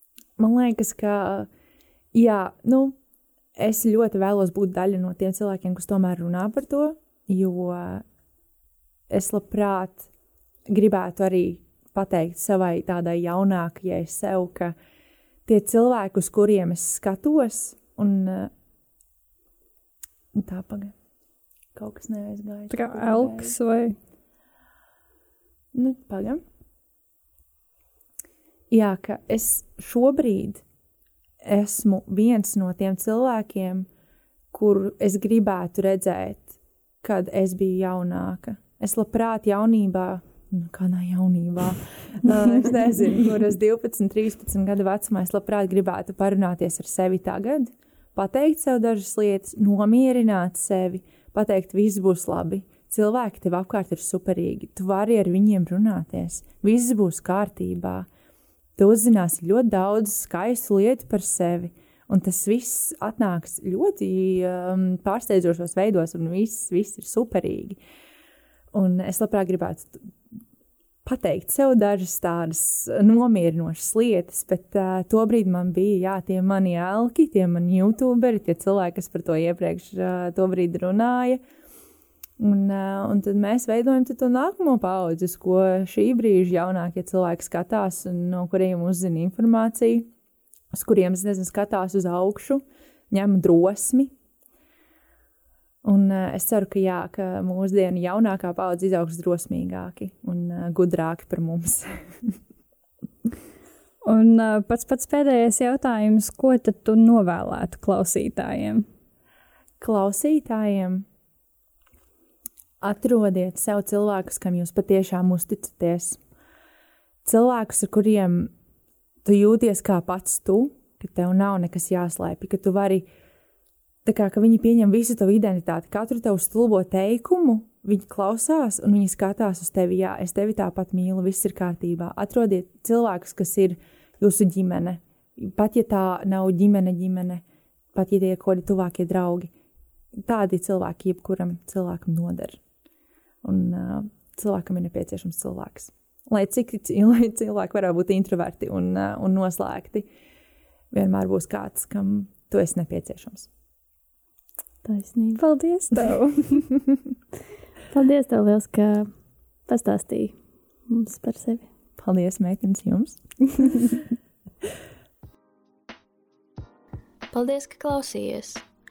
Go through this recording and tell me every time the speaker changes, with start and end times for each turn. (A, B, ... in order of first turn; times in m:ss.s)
0:00.4-0:01.5 A
0:02.1-0:03.0 A
0:03.6-0:08.0 A
0:09.1-0:10.1 A
0:10.7-0:14.7 A
0:15.4-0:18.5 A
0:20.3-0:20.9 A
0:21.7-0:23.5 A
0:22.7-0:24.0 B
0:25.7-0:26.4 A
0:28.7-0:30.6 A
0:31.4-0:33.9 A
0:34.5-0:58.1 A
0:58.8-1:07.8 A
1:08.7-1:10.0 A
1:11.0-1:21.4 A
1:22.4-1:30.1 A
1:30.7-1:34.1 A
1:35.8-1:42.4 A
1:44.0-1:48.8 B
1:49.8-1:51.0 A
1:52.8-1:56.2 A
1:57.2-1:58.5 A
1:59.2-2:03.1 A
2:04.0-2:19.5 A
2:20.2-2:22.6 A
2:23.4-2:30.0 A
2:30.9-2:33.5 A
2:34.8-2:35.4 C
2:35.4-2:36.7 B
2:37.9-2:39.1 C
2:39.7-2:40.4 C
2:40.9-2:41.7 C
2:42.0-2:44.0 A
2:47.3-2:48.6 C